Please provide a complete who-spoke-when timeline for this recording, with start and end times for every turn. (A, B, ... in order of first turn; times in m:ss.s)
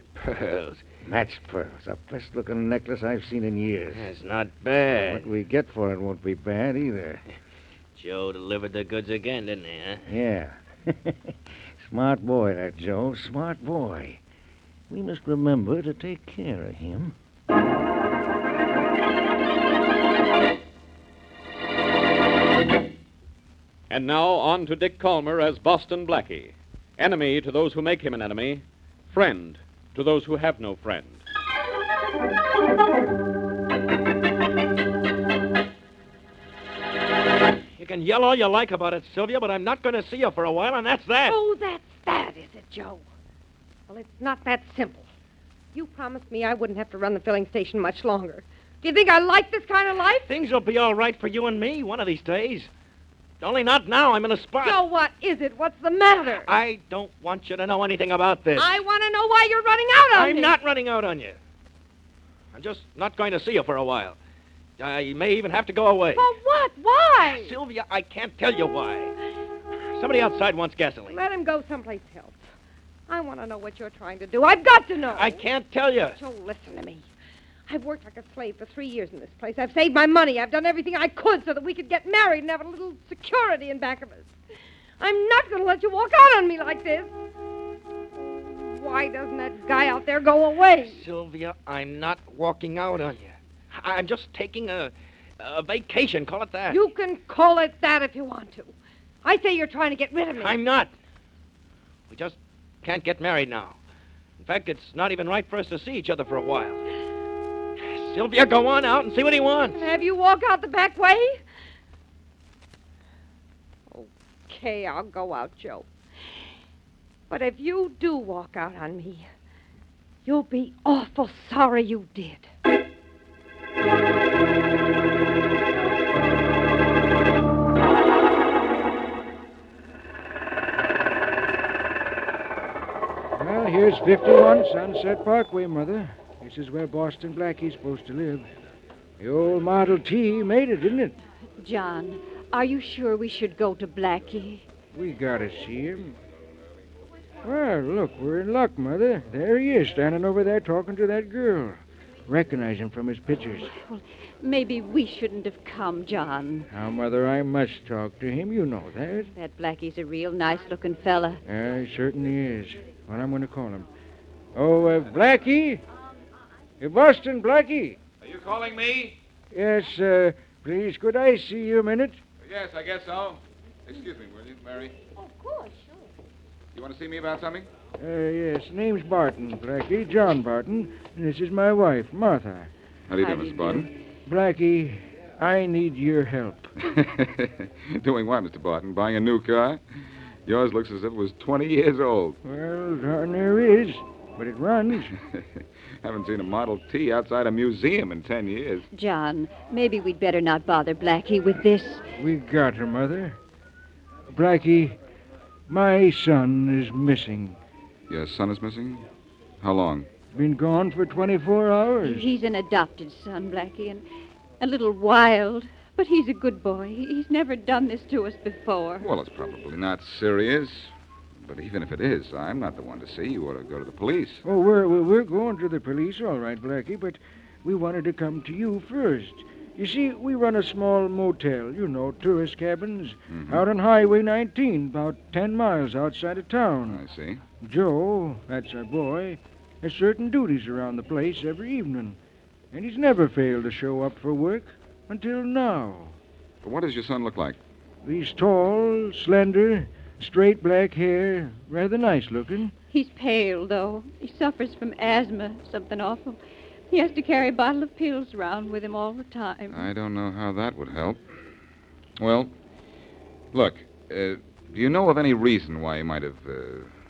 0:00.1-0:00.9 A
0:01.0-0:04.1 B
0:03.9-0:05.3 A
0:05.0-0:07.2 B
0:07.9-0:10.1 A
0:10.1-0:14.2 B
0:14.9-0:17.1 B
0:23.9-0:31.2 C
0:37.8-0:41.4 A
0:41.2-0:43.0 D
0:43.9-0:45.0 D
0:45.7-0:50.3 D
0:50.2-0:52.7 A
0:53.4-0:54.8 A
0:54.6-0:56.5 D
0:56.4-0:58.7 A
0:58.6-1:00.6 D
1:00.1-1:01.4 A
1:02.5-1:04.2 A
1:04.8-1:06.3 A
1:06.1-1:07.6 D
1:07.3-1:09.1 A
1:10.0-1:11.2 A
1:11.1-1:12.4 D
1:13.1-1:15.5 D
1:15.1-1:16.2 A
1:16.1-1:17.1 D
1:17.7-1:24.3 D
1:25.0-1:27.1 D
1:28.2-1:31.0 D
1:30.8-1:36.8 A
1:36.7-1:40.6 D
1:40.4-1:40.9 A
1:42.1-1:43.8 A
1:44.4-1:46.8 A
1:47.8-1:49.8 A
1:49.7-1:51.4 D
1:53.9-1:55.9 D
1:57.3-1:59.3 D
2:00.2-2:02.5 D
2:13.3-2:18.5 E
2:19.2-2:21.2 E
2:21.6-2:24.6 F
2:24.9-2:26.2 E
2:27.4-2:33.7 E
2:33.6-2:36.7 F
2:36.7-2:39.3 E
2:39.3-2:41.4 F
2:41.4-2:43.9 E
2:44.5-2:45.8 E
2:46.8-2:48.0 E
2:48.2-2:49.2 G
2:49.5-2:52.2 E
2:52.4-2:54.9 G
2:55.2-2:56.0 D
2:56.7-2:57.7 G
2:58.0-3:02.7 E
3:03.1-3:03.9 G
3:03.2-3:03.8 F
3:04.2-3:06.7 E
3:06.8-3:09.8 G
3:10.4-3:12.4 G
3:12.4-3:15.1 E
3:16.0-3:18.8 G
3:18.9-3:22.0 F
3:22.2-3:23.4 E
3:24.3-3:25.0 E
3:25.7-3:27.6 E
3:28.1-3:29.0 G
3:29.6-3:30.1 G
3:30.3-3:32.3 E
3:32.0-3:34.0 F
3:34.6-3:39.1 F
3:39.0-3:40.9 G
3:41.4-3:44.4 G
3:44.4-3:57.0 E
3:53.3-3:53.7 G
3:56.9-3:57.4 G
3:57.6-4:02.2 E
4:02.7-4:06.2 E
4:06.6-4:07.6 G
4:08.0-4:12.7 E
4:12.9-4:16.4 F
4:16.9-4:19.9 F
4:19.7-4:21.2 G
4:22.2-4:22.5 G
4:23.5-4:26.9 G